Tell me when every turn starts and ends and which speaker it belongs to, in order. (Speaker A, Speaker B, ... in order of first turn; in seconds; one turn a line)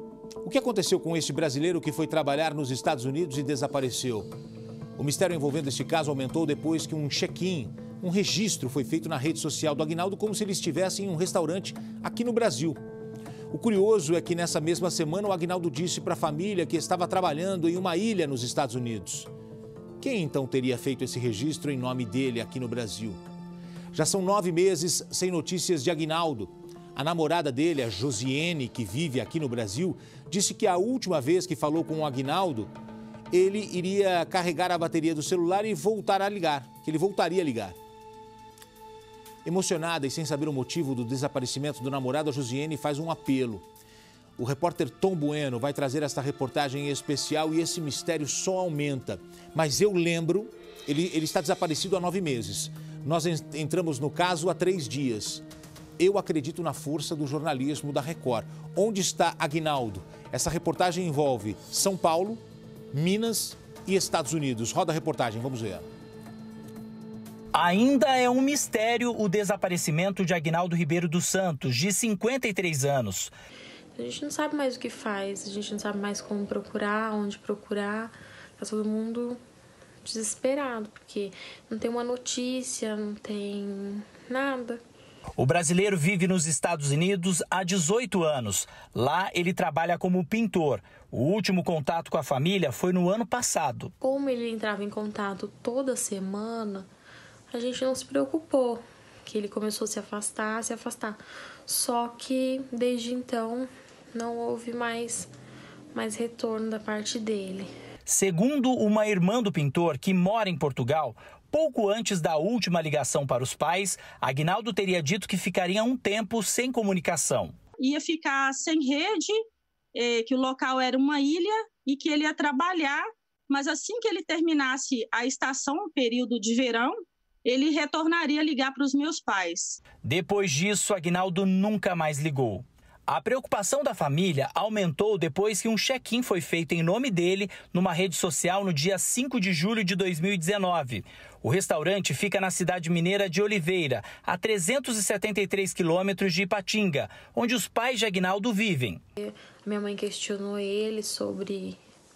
Speaker A: 0.4-4.3
Speaker A: 5.0-12.8
Speaker A: 13.5-19.3
Speaker A: 20.0-23.2
Speaker A: 23.9-32.7
Speaker A: 33.3-37.8
Speaker A: 39.4-43.6
Speaker A: 44.4-55.4
Speaker A: 56.0-62.4
Speaker A: 62.9-65.9
Speaker B: 67.5-73.3
Speaker C: 74.0-79.4
Speaker C: 80.0-84.8
Speaker B: 85.4-93.9
Speaker C: 94.0-96.9
Speaker C: 97.5-105.3
Speaker C: 105.9-107.7
Speaker B: 108.0-117.5
Speaker D: 117.8-119.4
Speaker D: 119.9-129.8
Speaker B: 130.0-149.0
Speaker C: 149.2-151.8